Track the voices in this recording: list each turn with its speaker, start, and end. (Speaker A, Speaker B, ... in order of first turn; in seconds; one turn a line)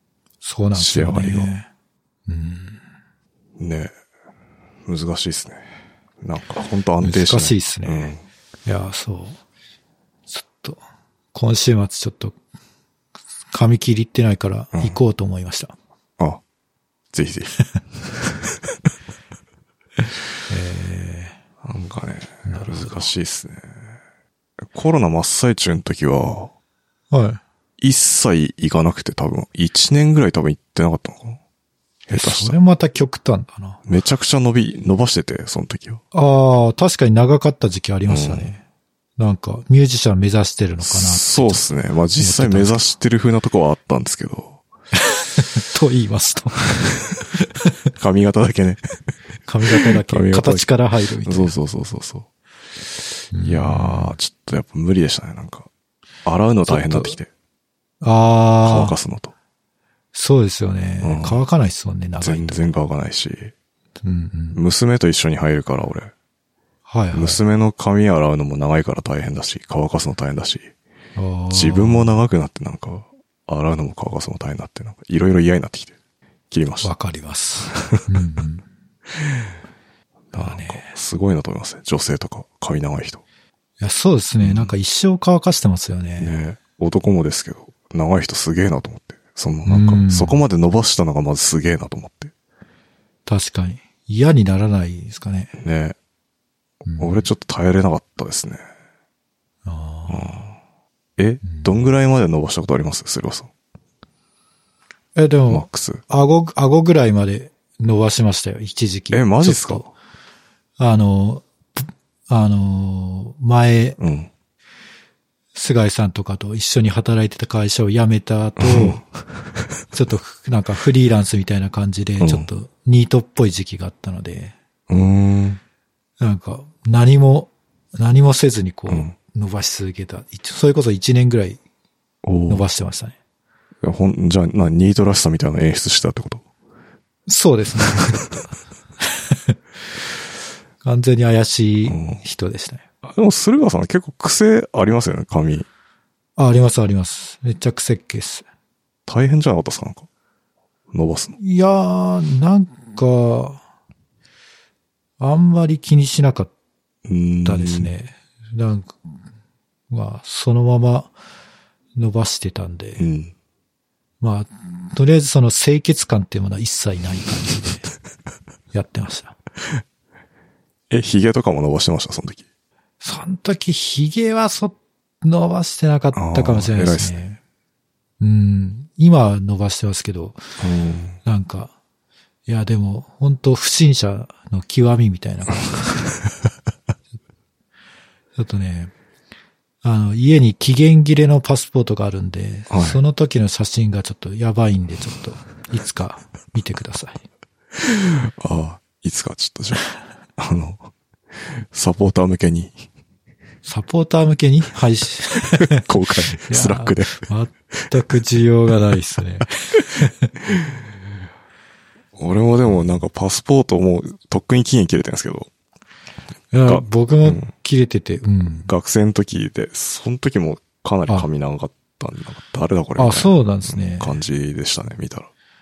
Speaker A: 0.4-1.7
Speaker B: 0.8-1.5
Speaker A: 2.3-2.8
Speaker B: 3.6-3.9
Speaker B: 4.9-8.2
Speaker A: 7.0-8.1
Speaker A: 8.7-9.4
Speaker A: 10.3-10.8
Speaker A: 11.3-12.4
Speaker A: 13.5-15.8
Speaker B: 17.1-17.6
Speaker A: 20.5-21.4
Speaker B: 21.6-23.9
Speaker A: 22.5-23.1
Speaker B: 24.7-26.5
Speaker A: 27.1-27.4
Speaker B: 27.8-31.4
Speaker B: 32.1-32.6
Speaker A: 32.1-33.8
Speaker B: 33.9-36.0
Speaker A: 36.1-38.6
Speaker B: 38.1-38.5
Speaker A: 39.2-41.6
Speaker B: 40.8-44.6
Speaker A: 42.2-42.9
Speaker A: 45.0-47.5
Speaker B: 48.0-48.8
Speaker A: 49.5-51.6
Speaker B: 49.8-50.7
Speaker B: 51.2-52.3
Speaker A: 53.3-54.2
Speaker B: 53.4-55.7
Speaker B: 56.2-57.3
Speaker A: 56.7-57.2
Speaker A: 58.0-59.0
Speaker B: 58.6-59.3
Speaker A: 60.1-62.7
Speaker B: 61.0-61.4
Speaker B: 62.2-63.5
Speaker A: 64.0-64.6
Speaker B: 64.5-66.1
Speaker A: 66.9-67.4
Speaker B: 67.1-70.7
Speaker A: 71.2-72.2
Speaker B: 71.5-75.9
Speaker B: 76.5-76.9
Speaker A: 76.8-78.7
Speaker B: 77.7-78.0
Speaker B: 80.3-83.2
Speaker A: 80.3-80.9
Speaker A: 83.8-86.3
Speaker B: 84.4-84.7
Speaker B: 86.2-92.3
Speaker A: 89.7-90.4
Speaker A: 93.3-95.5
Speaker B: 95.5-96.0
Speaker A: 96.8-97.3
Speaker B: 97.0-98.6
Speaker A: 99.7-100.5
Speaker B: 100.1-100.5
Speaker B: 101.2-103.5
Speaker A: 101.4-101.8
Speaker A: 105.2-109.9
Speaker B: 105.5-106.0
Speaker B: 109.1-109.9
Speaker A: 110.8-114.0
Speaker B: 114.0-114.3
Speaker A: 115.5-119.0
Speaker B: 118.6-119.0
Speaker A: 119.9-124.5
Speaker B: 122.2-122.5
Speaker B: 124.9-125.6
Speaker A: 126.2-131.6
Speaker B: 132.2-132.7
Speaker A: 132.5-133.2
Speaker B: 133.8-136.4
Speaker A: 137.3-139.6
Speaker A: 140.8-142.8
Speaker B: 141.9-142.2
Speaker B: 143.0-145.7
Speaker A: 146.4-148.5
Speaker B: 149.1-150.1
Speaker B: 150.9-151.4
Speaker A: 151.4-153.6
Speaker A: 155.2-156.5
Speaker B: 157.1-157.9
Speaker A: 157.4-159.0
Speaker A: 159.9-161.1
Speaker A: 162.0-163.1
Speaker B: 163.0-163.3
Speaker A: 164.2-167.9
Speaker A: 168.7-169.4
Speaker B: 170.9-172.4
Speaker A: 173.0-177.4
Speaker B: 176.1-177.2
Speaker A: 178.2-180.4
Speaker B: 180.6-181.2
Speaker A: 181.2-181.7
Speaker A: 182.5-186.1
Speaker A: 188.4-188.9
Speaker A: 189.8-197.2
Speaker B: 192.7-193.0
Speaker B: 197.8-199.8
Speaker B: 200.4-200.9
Speaker B: 201.5-202.9
Speaker A: 203.7-210.3
Speaker B: 205.5-207.3
Speaker B: 212.2-215.5
Speaker A: 216.5-218.7
Speaker B: 216.6-217.5
Speaker B: 218.7-225.3
Speaker A: 223.0-224.2